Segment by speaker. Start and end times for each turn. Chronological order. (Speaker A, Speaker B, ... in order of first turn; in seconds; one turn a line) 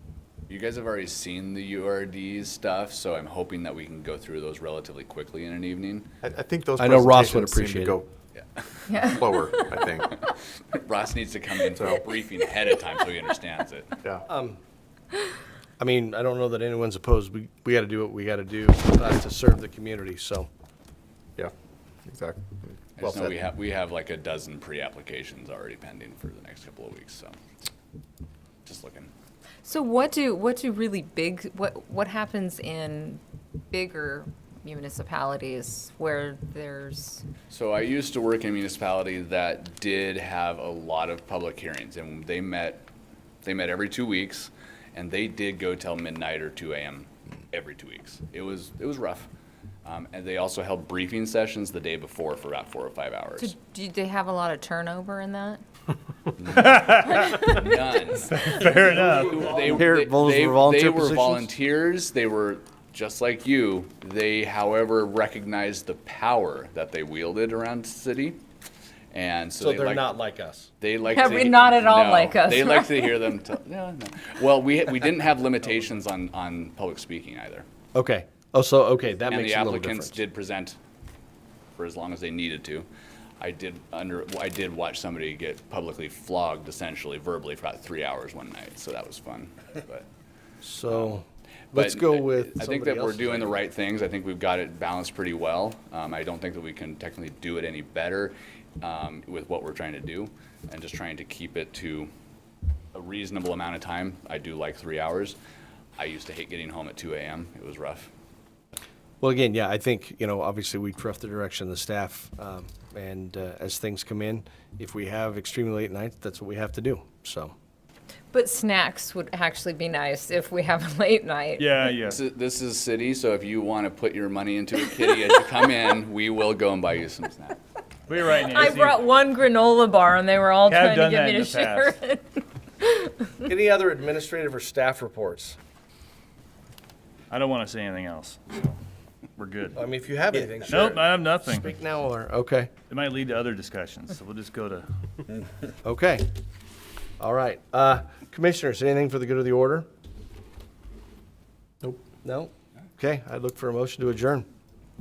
Speaker A: 0.5-6.1
Speaker B: 6.2-8.1
Speaker C: 6.8-8.0
Speaker A: 8.3-8.9
Speaker D: 8.9-9.5
Speaker B: 9.0-10.1
Speaker A: 10.3-13.9
Speaker B: 11.8-12.0
Speaker C: 14.3-14.6
Speaker C: 15.8-20.5
Speaker B: 22.1-23.4
Speaker A: 23.0-27.3
Speaker A: 28.6-29.1
Speaker D: 29.6-37.2
Speaker A: 37.5-42.9
Speaker A: 43.4-49.3
Speaker A: 49.8-53.5
Speaker D: 53.4-55.6
Speaker A: 56.4-68.4
Speaker E: 56.4-57.5
Speaker D: 57.2-57.7
Speaker E: 58.1-59.8
Speaker C: 59.6-61.5
Speaker A: 69.1-70.0
Speaker C: 69.6-70.7
Speaker A: 70.8-77.7
Speaker D: 71.0-73.2
Speaker C: 77.9-80.2
Speaker A: 79.3-80.8
Speaker A: 81.8-82.9
Speaker A: 83.4-90.1
Speaker C: 90.6-93.6
Speaker A: 91.7-102.1
Speaker A: 102.9-105.4
Speaker A: 106.0-108.1
Speaker C: 109.2-117.5
Speaker D: 118.3-121.7
Speaker E: 121.6-122.2
Speaker A: 122.0-127.6
Speaker E: 128.1-129.0
Speaker D: 128.2-133.4
Speaker E: 130.7-131.9
Speaker C: 133.4-135.6
Speaker E: 137.3-138.8
Speaker E: 139.3-139.8
Speaker C: 139.7-142.7
Speaker E: 140.5-141.7
Speaker E: 142.9-144.9
Speaker C: 145.8-146.2
Speaker C: 147.2-149.8
Speaker C: 152.1-154.4